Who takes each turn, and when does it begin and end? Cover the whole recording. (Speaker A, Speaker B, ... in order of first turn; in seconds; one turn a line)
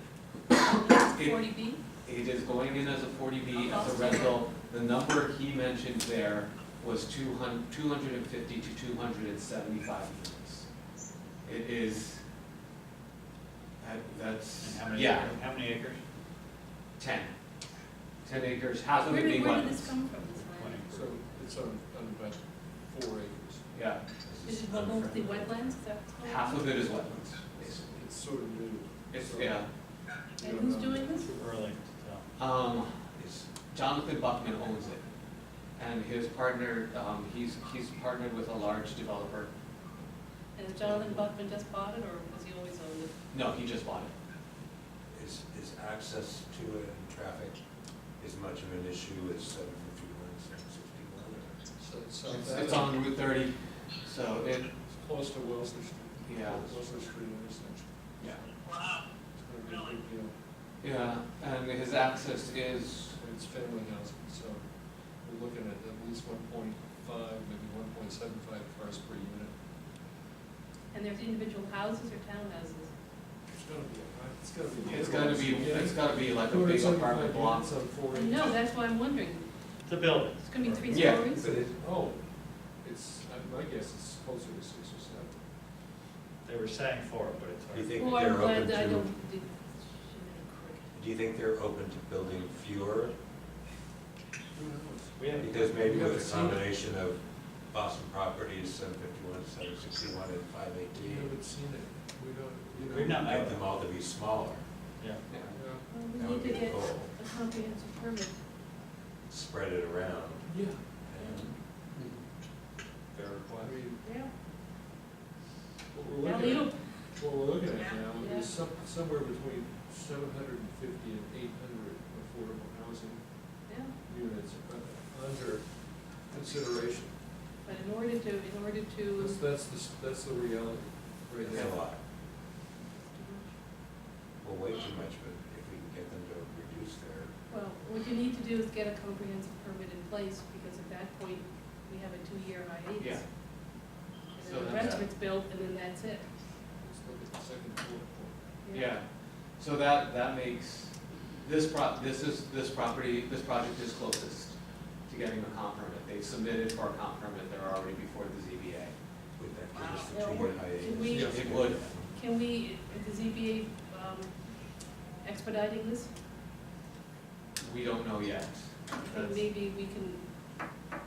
Speaker A: 0.6-1.8
Speaker B: 1.1-1.4
Speaker B: 2.0-10.7
Speaker A: 3.6-4.4
Speaker B: 11.4-12.2
Speaker B: 13.8-15.3
Speaker C: 14.6-16.0
Speaker B: 17.0-17.3
Speaker B: 18.2-19.9
Speaker A: 19.0-20.8
Speaker C: 20.3-21.1
Speaker D: 20.9-23.7
Speaker B: 23.7-24.0
Speaker E: 24.2-25.7
Speaker A: 24.4-26.8
Speaker B: 26.2-27.9
Speaker D: 27.5-29.6
Speaker B: 29.1-29.7
Speaker D: 30.4-31.2
Speaker A: 30.4-31.3
Speaker C: 31.2-32.2
Speaker B: 32.4-35.0
Speaker B: 35.8-39.5
Speaker A: 40.5-43.1
Speaker B: 40.9-41.2
Speaker B: 43.3-44.1
Speaker E: 45.1-47.6
Speaker E: 48.2-51.6
Speaker D: 51.8-53.0
Speaker B: 52.2-54.7
Speaker D: 54.9-58.4
Speaker B: 56.2-56.7
Speaker D: 59.3-60.3
Speaker B: 60.8-63.2
Speaker D: 63.2-64.7
Speaker D: 65.2-69.5
Speaker A: 70.9-72.9
Speaker D: 73.5-78.6
Speaker A: 74.8-75.3
Speaker B: 74.8-77.7
Speaker A: 78.1-79.4
Speaker C: 79.8-81.0
Speaker A: 80.4-81.4
Speaker B: 80.9-81.7
Speaker E: 81.1-81.7
Speaker D: 81.7-82.2
Speaker D: 82.8-85.4
Speaker C: 86.4-87.9
Speaker E: 87.7-89.1
Speaker A: 88.0-90.9
Speaker E: 90.9-93.1
Speaker D: 94.5-96.7
Speaker C: 95.2-95.8
Speaker E: 95.4-101.3
Speaker D: 100.9-103.3
Speaker C: 102.8-103.6
Speaker E: 103.0-104.7
Speaker B: 105.3-105.6
Speaker D: 105.5-105.8
Speaker A: 105.9-108.3
Speaker E: 106.1-107.1
Speaker E: 109.3-110.5
Speaker D: 110.5-110.8
Speaker E: 111.0-111.5
Speaker A: 111.2-111.5
Speaker B: 111.9-112.2
Speaker C: 113.1-113.7
Speaker D: 113.6-114.0
Speaker A: 114.0-114.3
Speaker D: 115.9-127.1
Speaker A: 116.2-116.9
Speaker A: 118.2-118.5
Speaker A: 123.7-123.9
Speaker A: 127.6-129.4
Speaker D: 129.2-131.8
Speaker B: 131.4-131.7
Speaker E: 131.4-132.0
Speaker A: 133.1-133.5
Speaker E: 134.4-137.3
Speaker A: 137.5-143.2
Speaker A: 144.3-146.2
Speaker B: 144.4-145.0
Speaker E: 144.8-145.0
Speaker D: 146.8-148.3
Speaker A: 148.6-148.9
Speaker B: 148.7-158.9
Speaker E: 159.4-162.1
Speaker A: 160.0-161.4
Speaker D: 161.1-161.4
Speaker B: 161.1-161.8
Speaker A: 162.1-164.3
Speaker A: 165.2-166.1
Speaker B: 167.6-169.4
Speaker A: 168.9-170.2